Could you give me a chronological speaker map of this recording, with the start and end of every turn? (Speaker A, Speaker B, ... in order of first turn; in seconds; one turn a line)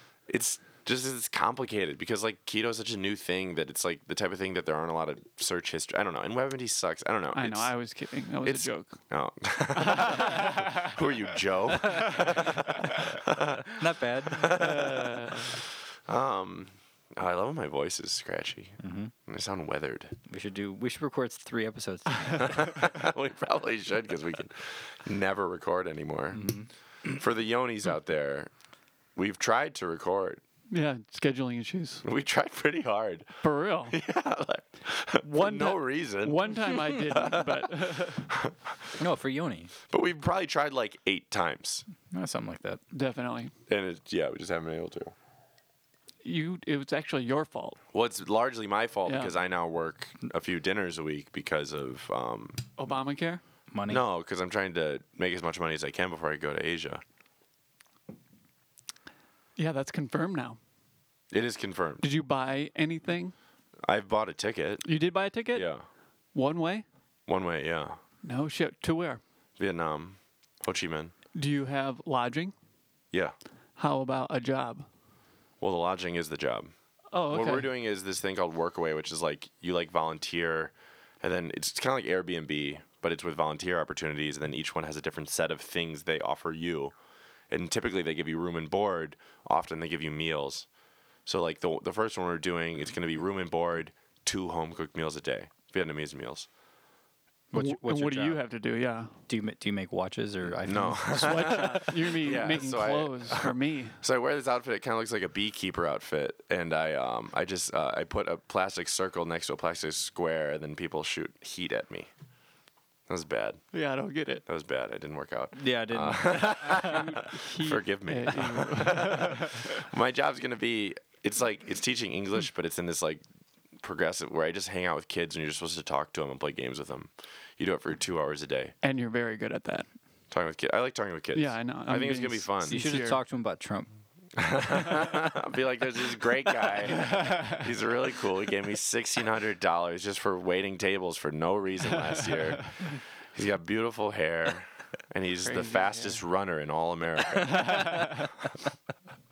Speaker A: 0.3-7.7
Speaker B: 7.3-9.0
Speaker A: 8.4-20.1
Speaker B: 9.8-10.7
Speaker C: 12.0-14.6
Speaker B: 14.4-15.5
Speaker C: 18.8-19.1
Speaker C: 20.3-22.8
Speaker A: 22.4-26.5
Speaker C: 26.3-26.7
Speaker A: 27.1-28.5
Speaker A: 29.1-30.4
Speaker B: 30.7-32.0
Speaker A: 32.0-39.0
Speaker B: 33.4-34.0
Speaker B: 35.2-38.3
Speaker C: 39.0-39.7
Speaker A: 39.9-41.8
Speaker C: 42.1-42.8
Speaker B: 42.9-43.5
Speaker A: 43.7-45.1
Speaker B: 46.2-47.8
Speaker A: 47.9-52.6
Speaker B: 49.0-49.3
Speaker B: 52.8-53.4
Speaker C: 53.7-54.0
Speaker A: 53.9-57.0
Speaker B: 59.6-60.6
Speaker A: 61.3-62.0
Speaker B: 62.0-63.3
Speaker A: 63.8-64.8
Speaker B: 64.8-65.7
Speaker A: 65.5-65.8
Speaker B: 66.3-66.8
Speaker A: 67.3-68.0
Speaker B: 68.2-69.2
Speaker A: 69.6-71.1
Speaker B: 71.3-72.5
Speaker B: 73.8-74.8
Speaker A: 75.6-76.7
Speaker B: 77.1-77.7
Speaker A: 77.3-86.9
Speaker A: 87.5-90.7
Speaker A: 91.2-96.5
Speaker C: 97.5-98.4
Speaker B: 97.5-99.2
Speaker C: 99.3-102.0
Speaker A: 100.6-112.1
Speaker B: 101.1-104.0
Speaker A: 113.1-113.6
Speaker B: 113.7-114.4
Speaker A: 114.5-123.2
Speaker C: 115.5-117.1
Speaker B: 116.7-119.8
Speaker A: 123.8-128.7
Speaker B: 128.8-129.9
Speaker A: 130.3-132.8
Speaker B: 131.3-133.2
Speaker C: 132.7-133.9
Speaker A: 134.3-148.2
Speaker B: 136.9-137.6
Speaker B: 142.0-142.8
Speaker B: 145.4-146.2
Speaker B: 147.3-148.3